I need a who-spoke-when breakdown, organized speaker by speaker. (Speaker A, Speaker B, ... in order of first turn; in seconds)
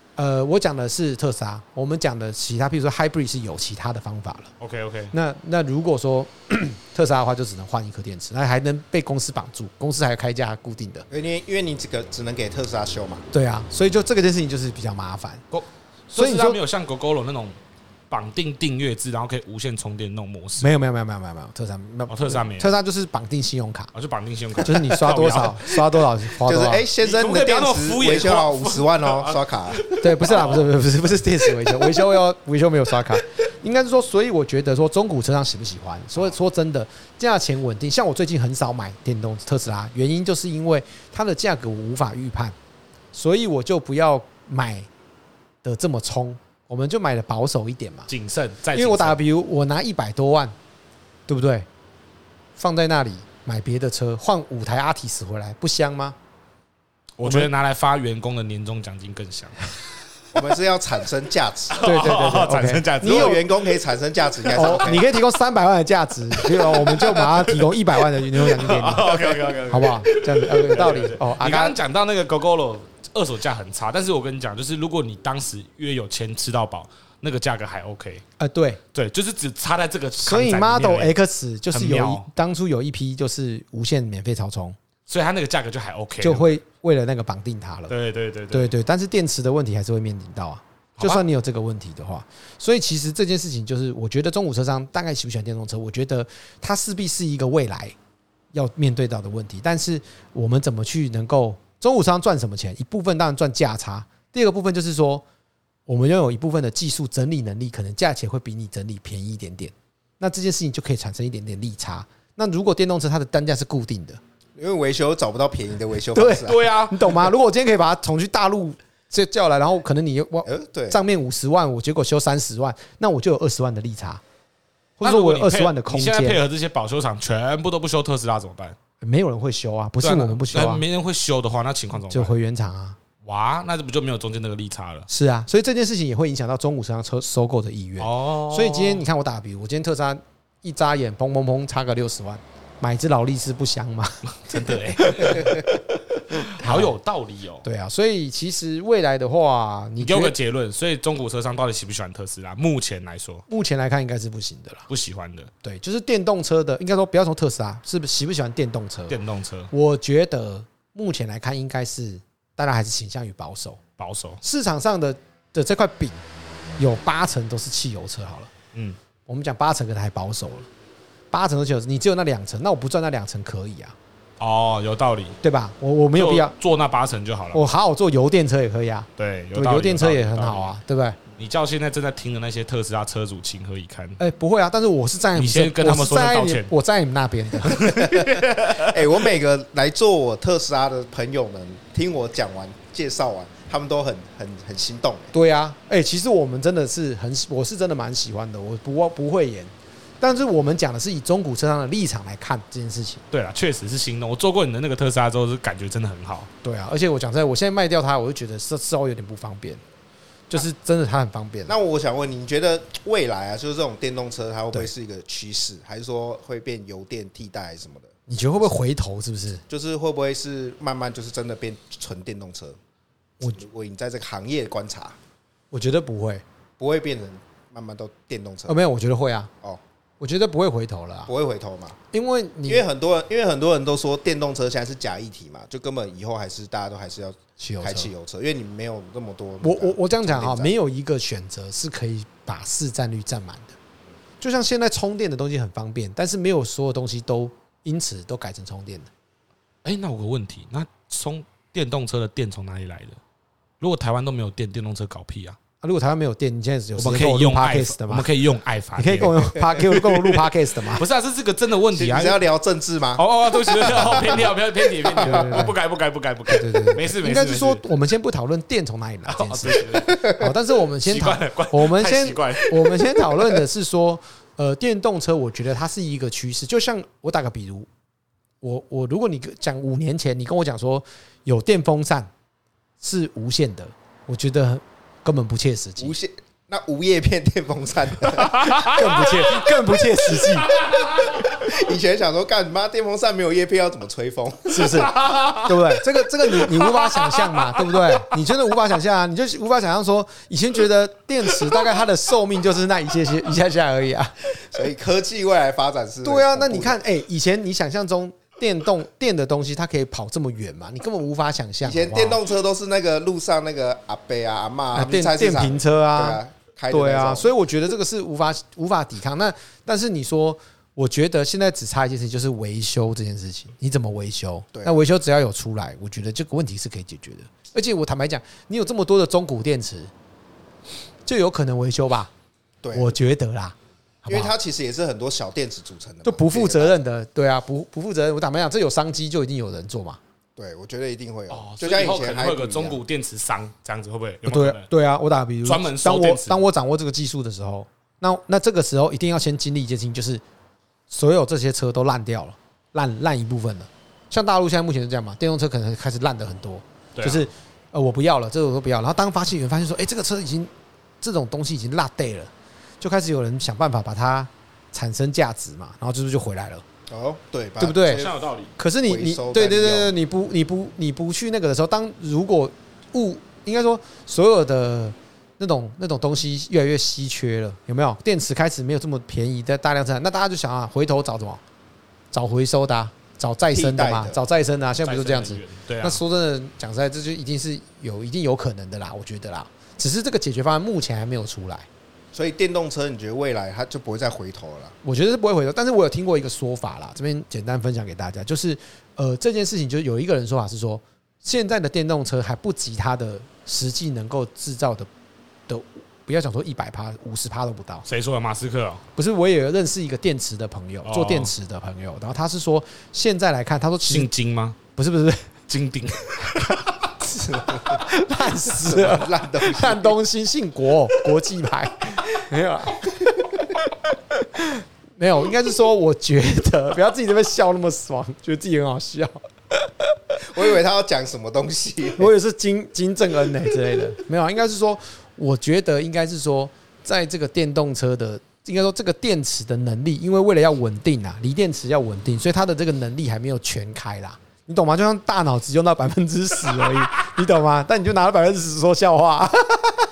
Speaker A: 0.2-4.5, 5.1-11.1, 13.3-15.4, 16.1-16.6, 20.6-23.9, 24.6-26.9, 30.0-42.5, 43.1-44.9, 45.6-48.1, 48.7-50.5, 51.3-51.7, 52.6-56.2, 57.2-57.5, 61.8-63.4, 64.5-71.8, 78.4-78.8, 80.2-84.8, 86.2-87.9, 88.5-98.0, 98.5-105.2, 105.9-114.2, 116.2-124.2, 125.0-126.4, 129.0-130.8, 132.1-133.0, 135.1-145.8, 146.5-147.0, 147.6-150.3, 153.5-154.9, 155.6-159.2, 159.7-163.8, 164.4-166.2, 166.8-168.5, 169.3-170.7, 171.3-174.0, 175.4-176.5, 177.5-181.2, 184.2-188.2, 195.3-203.2, 206.6-209.8, 210.5-211.7, 218.3-219.7, 225.7-226.4, 228.7-229.5, 230.2-231.3, 232.1-232.8, 237.6-238.1, 239.6-243.8, 244.4-249.1, 255.8-258.3, 259.0-261.1, 265.2-265.7, 266.5-277.9, 278.6-282.3, 283.0-286.1, 288.8-290.8, 294.7-304.6, 306.2-312.4, 314.9-330.1, 331.3-332.3, 332.9-334.5, 336.2-340.2, 344.4-350.4, 351.1-360.7, 361.2-366.9, 367.8-381.6, 382.3-391.9, 395.0-405.1, 405.7-408.1, 409.2-414.3, 414.9-415.5, 417.9-429.8, 432.2-450.0
Speaker B: 4.6-5.1, 15.5-17.6, 18.1-20.7, 22.1-22.8, 23.9-26.0, 27.0-30.7, 31.4-32.1, 48.1-49.2, 57.2-59.8, 61.7-63.5, 64.6-65.0, 66.4-78.2, 78.9-81.2, 81.7-82.3, 85.1-86.5, 87.9-88.7, 91.0-91.2, 116.4-117.3, 125.0-128.8, 130.0-132.3, 133.2-135.1, 138.0-139.1, 144.4-145.7, 146.3-147.7, 150.0-153.4, 154.9-155.5, 159.1-159.7, 164.0-164.4, 174.4-175.4, 176.2-177.6, 179.2-180.7, 181.4-184.2, 185.4-186.7, 187.6-189.1, 203.3-206.5, 249.8-253.2, 253.8-255.6, 257.0-262.4, 263.2-267.9, 269.3-270.3, 271.0-273.6, 288.4-289.6, 290.3-291.6, 294.9-298.5, 341.5-344.9, 345.6-346.6, 357.2-357.5, 368.0-368.7, 385.0-386.2, 408.1-409.0, 411.0-411.5, 414.0-414.8, 415.7-417.1
Speaker C: 11.1-13.2, 26.4-29.8, 60.3-61.8, 63.0-65.0, 114.6-116.7, 120.5-121.0, 188.1-195.3, 211.7-218.2, 219.7-222.8, 223.5-225.2, 226.8-228.8, 231.3-232.0, 232.7-240.7, 261.9-265.7, 270.1-270.4, 286.0-289.0, 290.8-295.1, 304.6-307.0, 311.8-317.5, 324.7-325.0, 332.8-333.1, 334.3-337.0, 340.6-343.0, 367.1-368.4, 369.1-370.1, 383.7-384.4, 392.3-395.0, 417.2-418.1, 418.7-420.2, 430.4-432.3